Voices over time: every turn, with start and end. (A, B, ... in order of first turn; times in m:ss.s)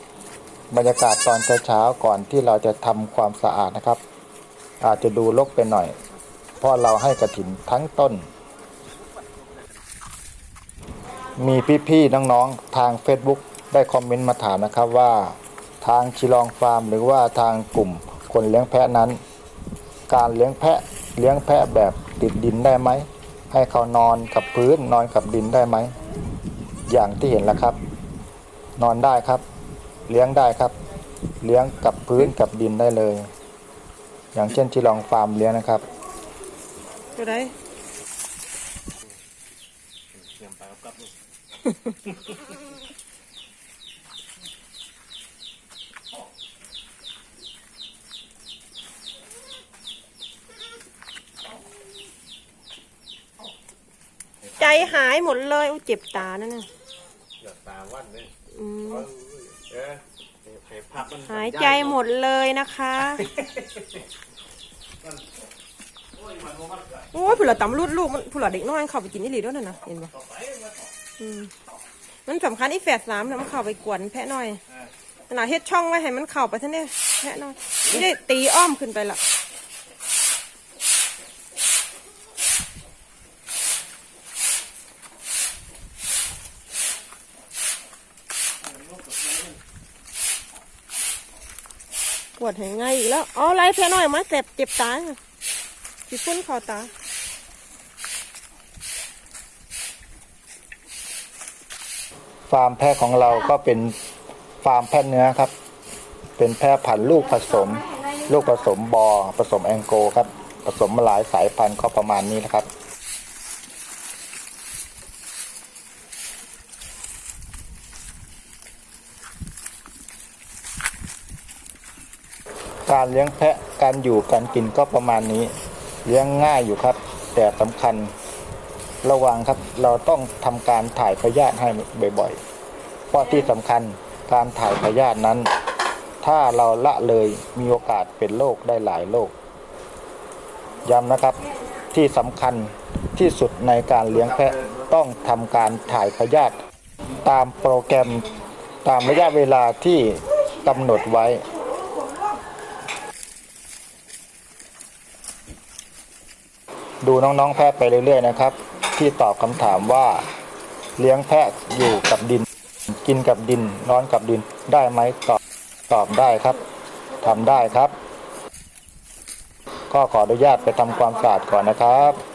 0:00.7-0:04.0 A
0:04.8-0:05.9 A
0:06.6-0:08.2 A
0:11.4-0:19.2 A
0:20.1-0:25.9 A
0:26.9-0:27.8 A
0:28.8-0:29.4 A
0:30.1-0:30.8 A
0:31.4-0:33.3 A
0:34.3-0:35.8 A
0:37.2-0:37.5 B
0:40.1-0:41.1 C
0:54.6-0:56.7 B
0:57.4-0:58.3 C
0:58.5-0:59.1 B
0:59.0-1:02.0 C
1:01.3-1:03.3 B
1:03.3-1:03.6 C
1:06.5-1:06.9 C
1:07.1-1:10.1 B
1:10.3-1:10.7 C
1:11.2-1:11.5 B
1:12.3-1:14.6 B
1:15.3-1:19.2 B
1:32.4-1:35.2 B
1:36.1-1:36.9 B
1:42.5-1:44.0 A
1:44.6-1:45.5 A
1:46.4-1:52.7 A
2:02.9-2:05.5 A
2:06.0-2:08.1 A
2:09.0-2:12.4 A
2:13.1-2:15.5 A
2:16.2-2:19.3 A
2:20.8-2:26.6 A
2:27.2-2:28.3 A
2:28.8-2:31.4 A
2:37.0-2:40.2 A
2:41.0-2:42.5 A
2:43.0-2:46.6 A
2:47.2-2:48.0 A
2:49.9-2:52.2 A